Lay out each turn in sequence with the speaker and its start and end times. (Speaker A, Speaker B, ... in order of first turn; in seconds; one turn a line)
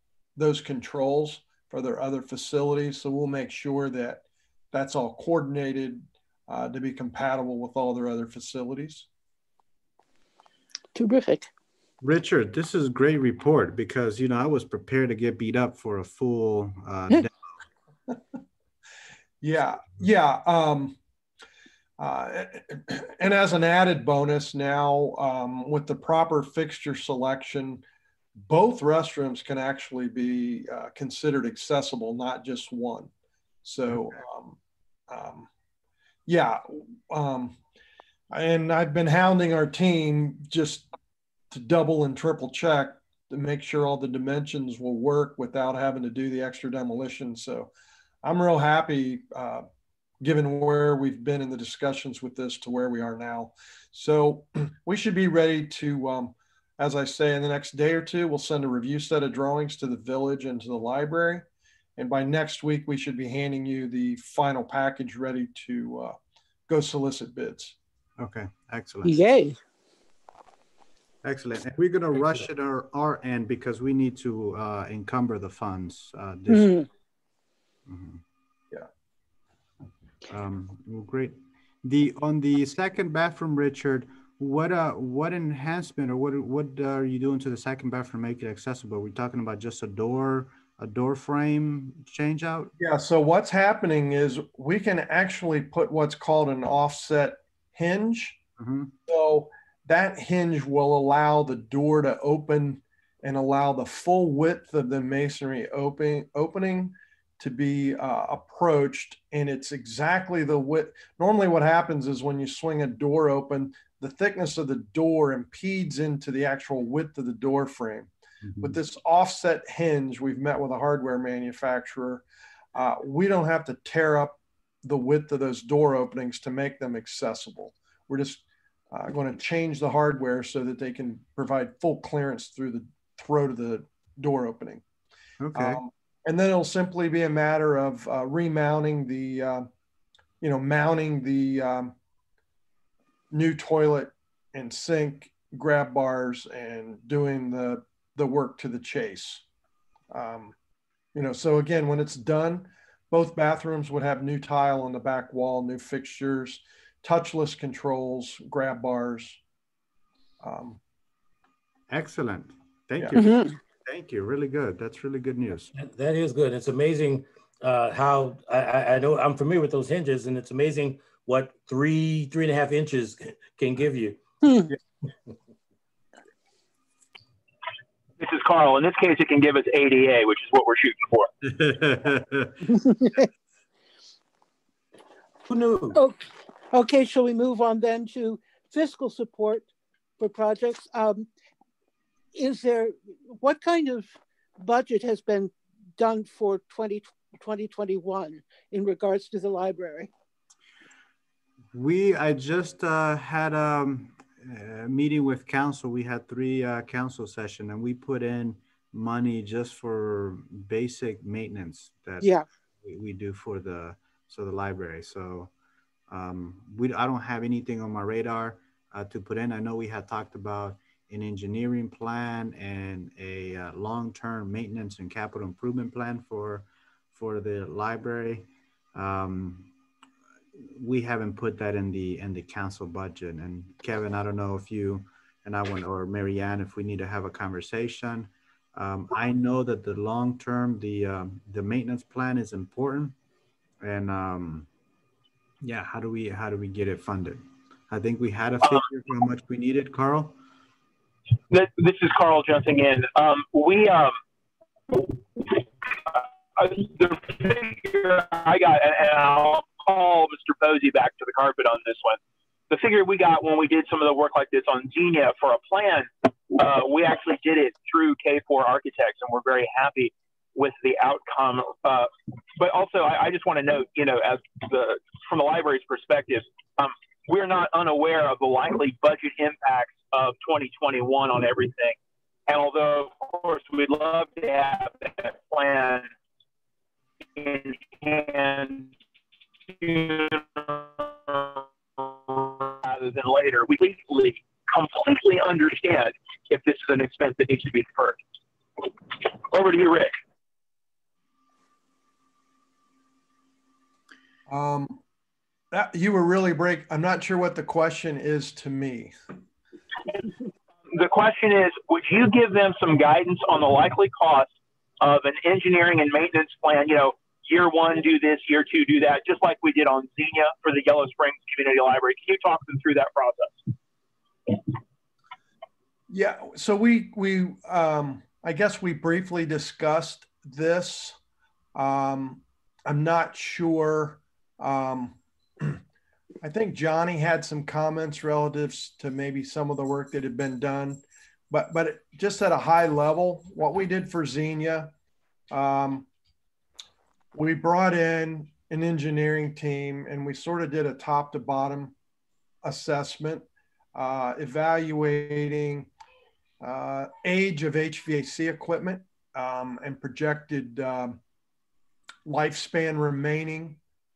Speaker A: 0.3-9.1
Speaker B: 10.9-11.5
Speaker C: 12.0-17.3
Speaker A: 19.4-21.0
Speaker A: 22.0-27.8
Speaker A: 28.4-33.1
Speaker A: 33.6-34.6
Speaker C: 33.9-34.2
Speaker A: 35.1-35.5
Speaker A: 36.2-37.6
Speaker A: 38.3-40.9
Speaker A: 41.5-47.7
Speaker A: 48.2-49.6
Speaker A: 50.2-61.4
Speaker A: 62.0-66.2
Speaker A: 66.7-67.8
Speaker C: 68.2-69.2
Speaker B: 69.0-69.6
Speaker C: 71.2-76.8
Speaker B: 76.5-76.9
Speaker C: 77.9-78.2
Speaker C: 80.3-92.7
Speaker A: 92.8-98.4
Speaker C: 98.6-98.9
Speaker A: 99.1-118.1
Speaker C: 118.4-118.8
Speaker A: 118.6-122.2
Speaker A: 122.7-134.8
Speaker C: 135.4-135.8
Speaker A: 135.5-139.7
Speaker A: 140.4-141.9
Speaker A: 143.3-149.4
Speaker A: 150.1-150.5
Speaker A: 151.1-159.4
Speaker A: 160.4-160.8
Speaker C: 161.9-163.3
Speaker B: 163.1-163.6
Speaker C: 163.8-165.7
Speaker D: 165.7-174.2
Speaker B: 174.4-174.7
Speaker E: 178.2-181.3
Speaker C: 181.4-182.6
Speaker B: 182.7-183.3
Speaker D: 185.5-186.0
Speaker B: 185.9-189.7
Speaker B: 190.2-191.3
Speaker B: 192.3-200.1
Speaker C: 201.7-215.5
Speaker C: 216.1-229.7
Speaker C: 230.6-243.1
Speaker C: 243.8-244.7
Speaker C: 245.6-250.4
Speaker E: 251.5-254.2
Speaker E: 254.9-262.2
Speaker E: 262.7-286.1
Speaker E: 287.4-288.9
Speaker E: 289.7-298.2
Speaker E: 299.1-300.1
Speaker A: 304.5-305.0
Speaker A: 305.7-309.1
Speaker E: 310.9-323.6
Speaker A: 326.1-331.2
Speaker A: 331.7-335.8
Speaker A: 336.4-344.9
Speaker A: 345.5-346.1
Speaker A: 347.3-351.9
Speaker A: 352.6-355.9
Speaker A: 356.6-361.2
Speaker A: 362.2-363.8